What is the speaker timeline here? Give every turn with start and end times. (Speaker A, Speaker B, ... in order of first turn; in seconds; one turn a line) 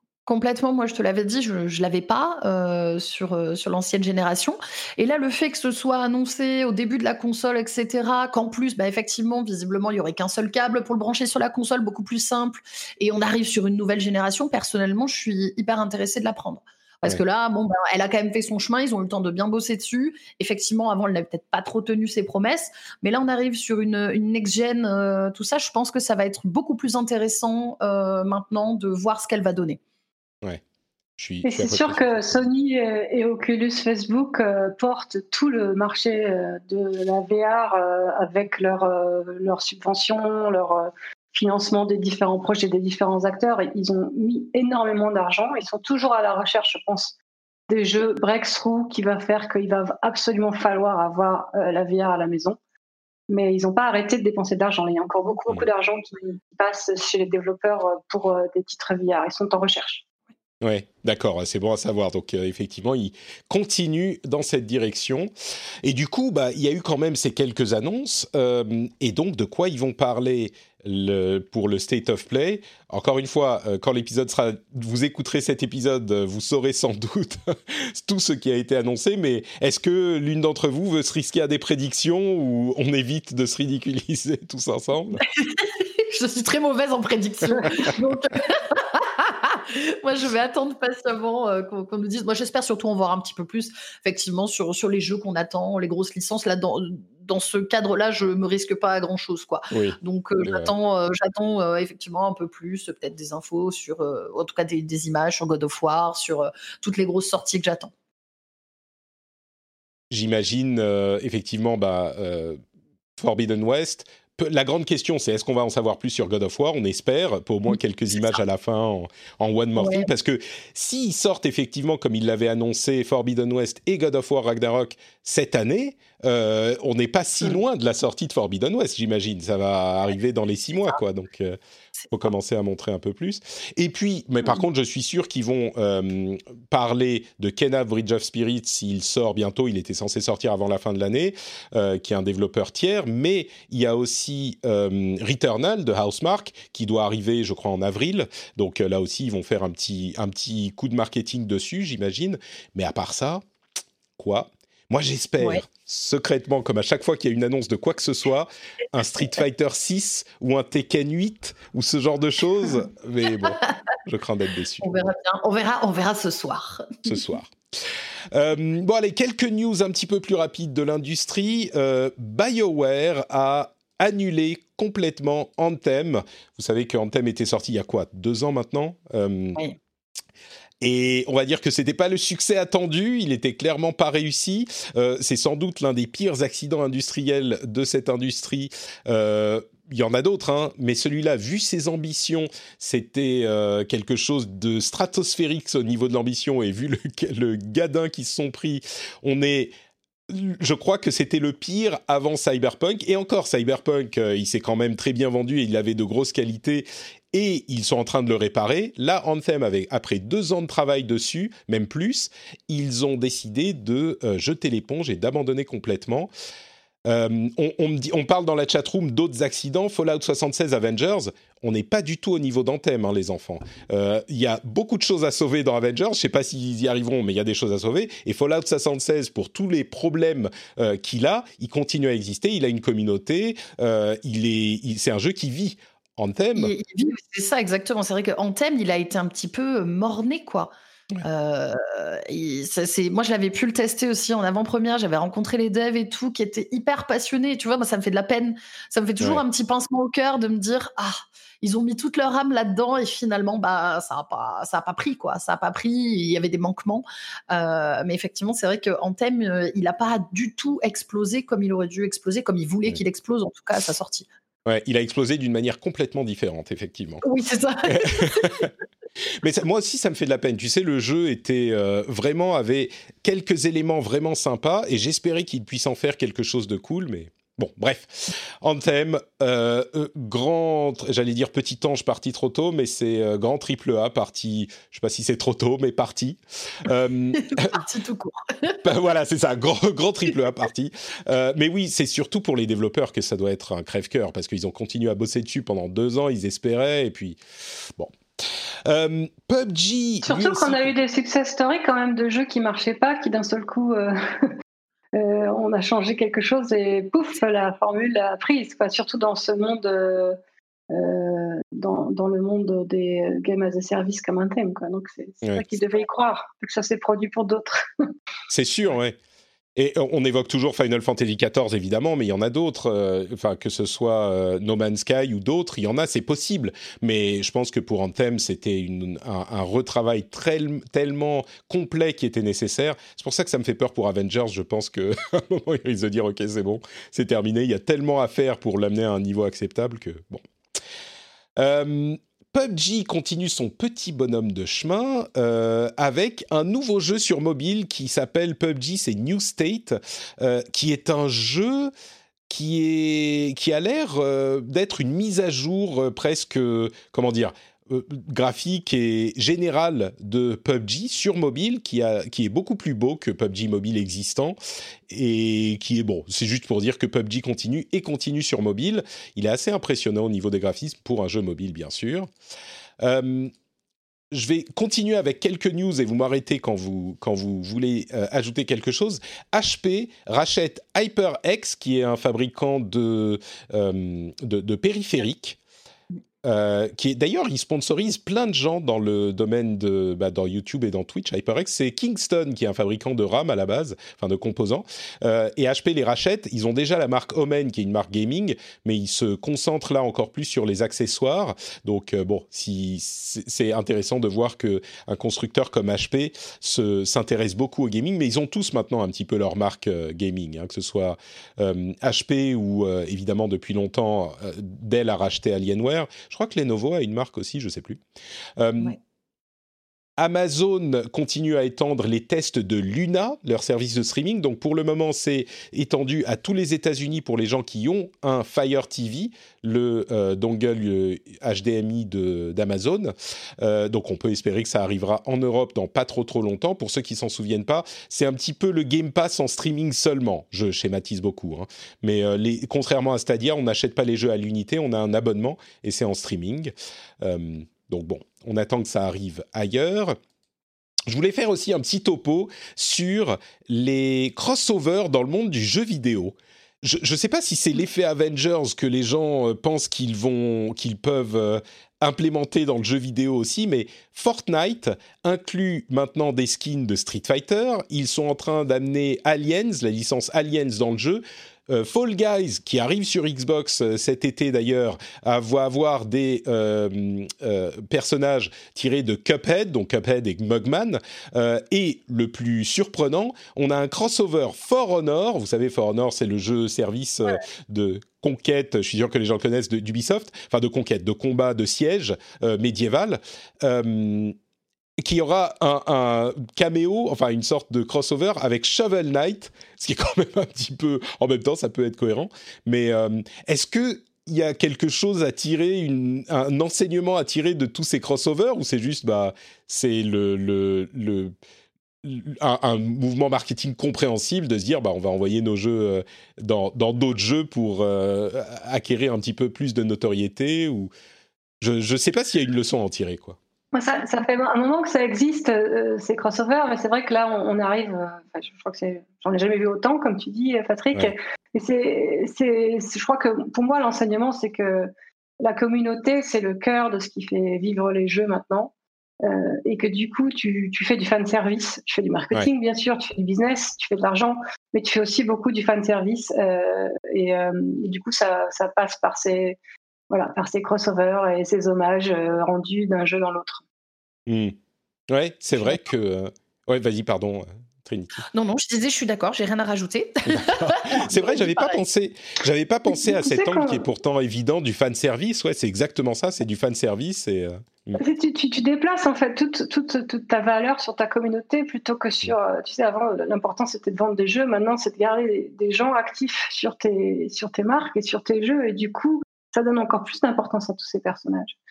Speaker A: 0.3-29.8
Speaker B: 31.2-32.4
Speaker C: 31.4-47.2
Speaker C: 47.7-52.6
Speaker C: 53.3-60.0
Speaker B: 60.6-65.3
Speaker B: 65.8-85.2
Speaker A: 85.4-107.9
Speaker B: 99.7-100.7
Speaker B: 110.1-112.6
Speaker B: 113.2-131.6
Speaker A: 119.8-120.1
Speaker B: 132.1-153.4
Speaker B: 154.2-165.0
Speaker A: 164.8-167.2
Speaker B: 167.1-167.5
Speaker B: 168.3-179.6
Speaker B: 180.8-199.7
Speaker B: 200.3-216.3
Speaker B: 217.1-236.7
Speaker A: 236.6-264.3
Speaker B: 264.7-267.2
Speaker A: 267.2-268.7
Speaker B: 267.9-268.7
Speaker B: 269.4-287.8
Speaker A: 287.4-288.8
Speaker B: 288.8-297.4
Speaker B: 298.9-300.9
Speaker C: 300.2-304.5
Speaker C: 305.1-310.4
Speaker C: 310.9-317.9
Speaker B: 315.4-315.7
Speaker B: 318.5-319.2
Speaker B: 319.8-340.4
Speaker B: 341.6-351.9
Speaker B: 352.5-364.6
Speaker B: 365.1-372.3
Speaker B: 373.0-373.5
Speaker B: 374.3-385.6
Speaker B: 386.4-418.0
Speaker B: 418.6-419.0
Speaker B: 420.2-450.2
Speaker B: 451.1-494.4
Speaker B: 495.0-511.4
Speaker B: 512.0-520.9
Speaker B: 521.6-523.4
Speaker C: 523.7-549.6
Speaker C: 550.1-553.6
Speaker B: 554.3-554.6
Speaker B: 555.1-558.2
Speaker A: 558.3-561.8
Speaker B: 560.3-568.0
Speaker C: 563.0-563.9
Speaker C: 568.0-581.6